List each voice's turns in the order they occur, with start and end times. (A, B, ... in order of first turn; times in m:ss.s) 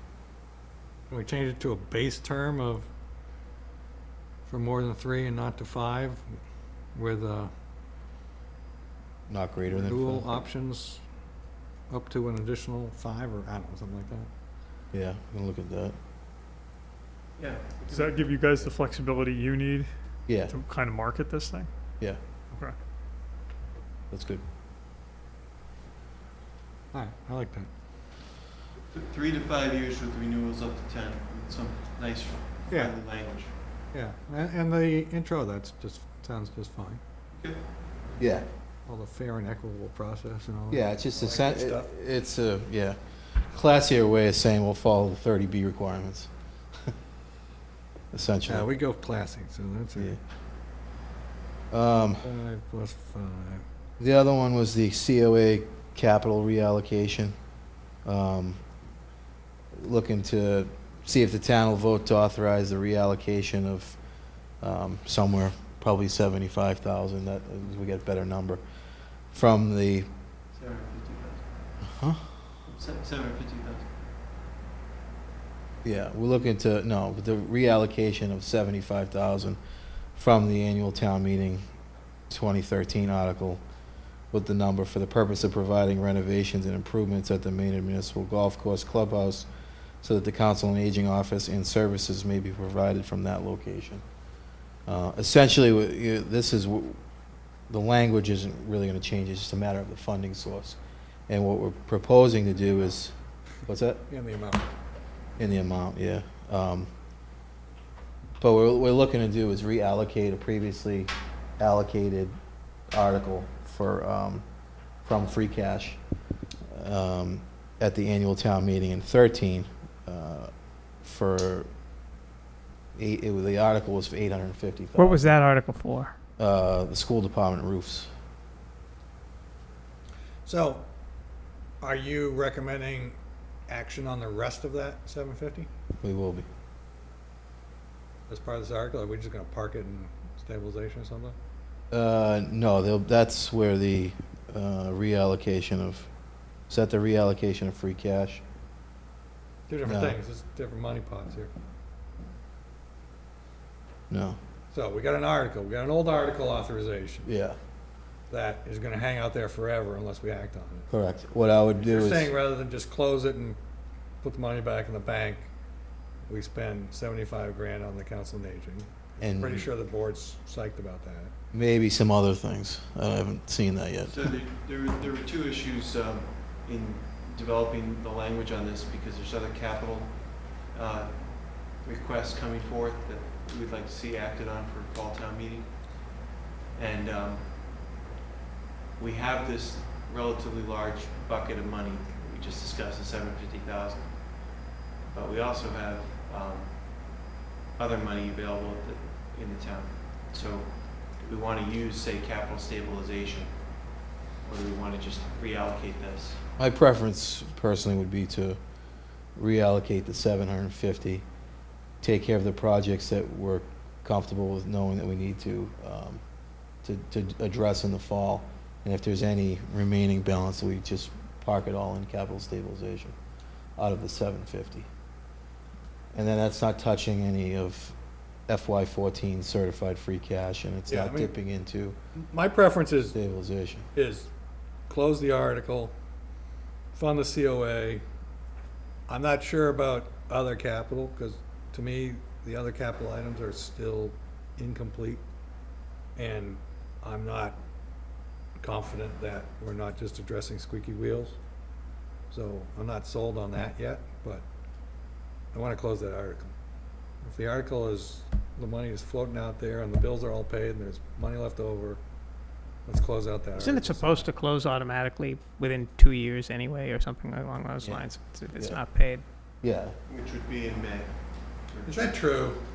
0:01.1-0:02.9 A
0:04.4-0:06.2 A
0:06.9-0:07.5 A
0:09.3-0:10.3 B
0:09.7-0:11.0 A
0:11.9-0:14.3 A
0:14.9-0:16.0 B
0:17.4-0:18.6 C
0:17.9-0:19.9 D
0:20.3-0:20.6 B
0:20.5-0:21.7 D
0:24.1-0:24.4 B
0:26.9-0:27.7 A
0:28.9-0:33.5 C
0:33.9-0:37.0 A
0:37.3-0:37.6 C
0:38.2-0:38.4 B
0:38.9-0:41.9 A
0:40.7-0:43.0 B
0:43.5-0:46.3 B
0:48.1-0:48.7 B
0:48.5-0:50.2 A
0:51.7-0:52.2 B
0:52.2-0:53.6 A
0:54.0-0:57.4 B
0:58.0-0:58.6 B
0:59.7-1:04.0 B
1:04.6-1:08.6 B
1:09.3-1:10.1 B
1:10.6-1:11.4 C
1:11.8-1:12.3 B
1:12.7-1:13.9 C
1:15.8-1:19.6 B
1:20.1-1:21.6 B
1:22.3-1:23.6 B
1:24.3-1:29.5 B
1:30.0-1:34.0 B
1:34.8-1:37.0 B
1:37.7-1:43.1 B
1:43.7-1:44.0 B
1:44.1-1:44.7 A
1:45.4-1:46.9 B
1:48.4-1:52.4 B
1:52.9-1:54.4 B
1:55.0-1:56.0 B
1:56.7-2:01.7 B
2:03.0-2:05.4 B
2:05.0-2:06.1 E
2:06.4-2:08.1 B
2:10.5-2:10.8 A
2:11.8-2:13.2 A
2:13.7-2:15.7 A
2:16.0-2:16.5 B
2:18.3-2:21.4 A
2:21.9-2:26.1 B
2:26.7-2:28.4 B
2:29.7-2:31.5 A
2:29.9-2:30.2 B
2:34.1-2:34.4 B
2:34.7-2:37.3 A
2:37.2-2:37.6 B
2:38.3-2:40.9 A
2:40.9-2:42.3 B
2:41.8-2:43.6 A
2:44.2-2:45.5 A
2:46.2-2:51.3 A
2:49.2-2:49.7 B
2:51.5-2:54.3 B
2:54.1-3:06.1 C
3:06.8-3:07.6 C
3:09.0-3:23.6 C
3:24.4-3:26.4 C
3:26.6-3:28.6 B
3:29.3-3:31.2 B
3:32.0-3:36.2 B
3:36.8-3:43.2 B
3:43.8-3:44.9 B
3:46.1-3:48.0 B
3:48.5-3:52.0 B
3:50.9-3:51.3 A
3:52.2-3:53.2 A
3:53.1-3:53.8 B
3:54.0-3:54.3 A
3:54.9-3:55.9 A
3:56.9-3:58.0 A
3:59.1-4:05.2 A
4:06.1-4:07.6 A
4:08.6-4:11.4 A
4:12.3-4:14.4 A
4:15.5-4:16.5 A
4:17.2-4:22.0 A
4:22.9-4:24.3 A
4:23.6-4:29.2 E
4:27.8-4:28.8 B
4:29.6-4:29.9 B
4:30.1-4:32.2 C
4:31.9-4:32.6 A